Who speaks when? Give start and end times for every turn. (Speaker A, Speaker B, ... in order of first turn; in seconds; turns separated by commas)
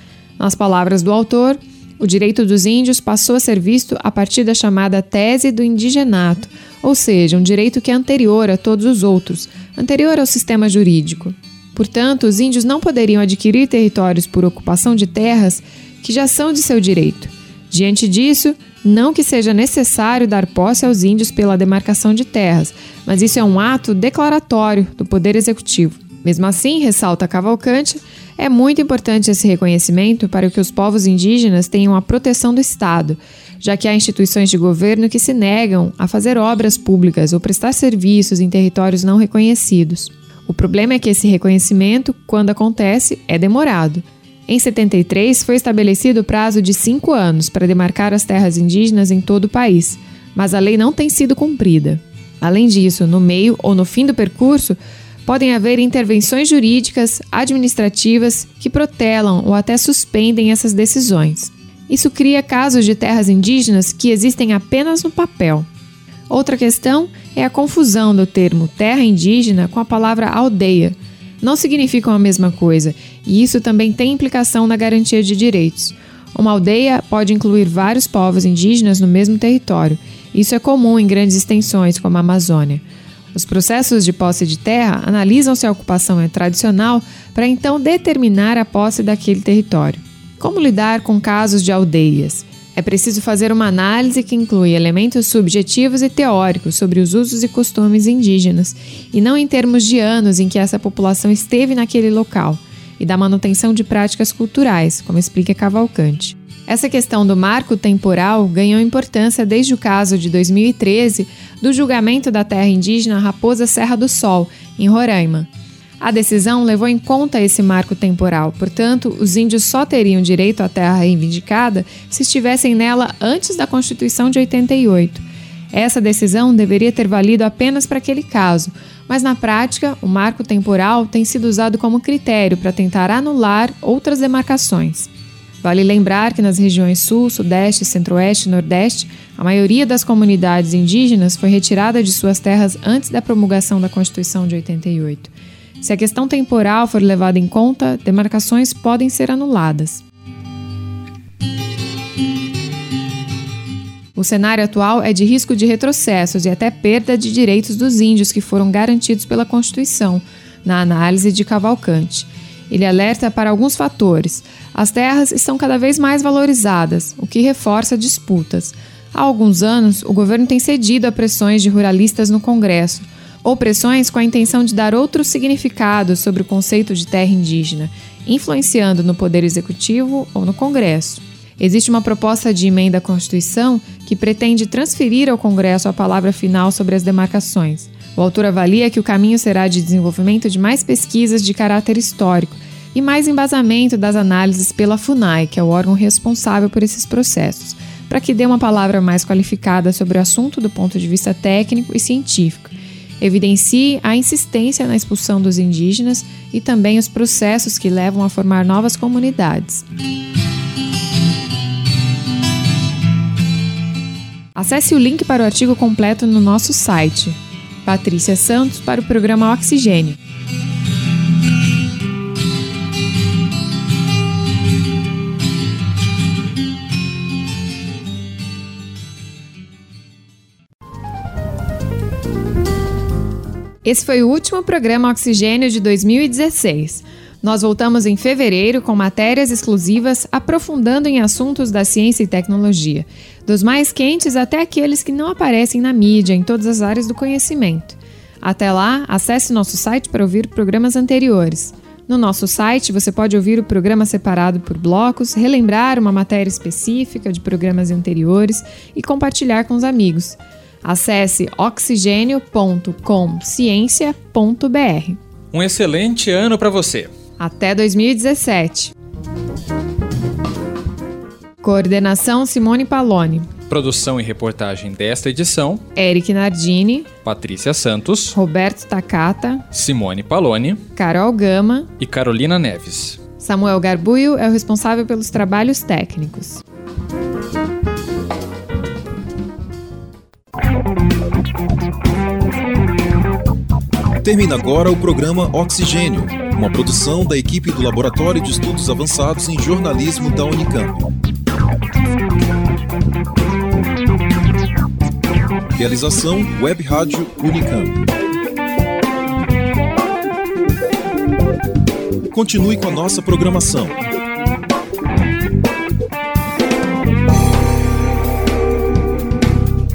Speaker A: 0.4-65.7, Speaker A: 66.3-82.8, Speaker A: 83.3-115.5, Speaker A: 116.0-135.1, Speaker A: 135.6-150.0, Speaker A: 154.1-209.8, Speaker A: 214.5-220.2, Speaker A: 233.8-265.2, Speaker B: 265.5-267.1, Speaker A: 267.4-268.9, Speaker A: 271.6-273.5, Speaker B: 273.7-275.8, Speaker A: 275.9-277.1, Speaker B: 277.2-278.4, Speaker A: 278.3-279.6, Speaker B: 279.7-280.8, Speaker A: 280.9-281.9, Speaker B: 282.0-283.3, Speaker A: 283.4-286.6, Speaker C: 294.2-301.1, Speaker C: 305.7-308.0, Speaker C: 312.3-314.0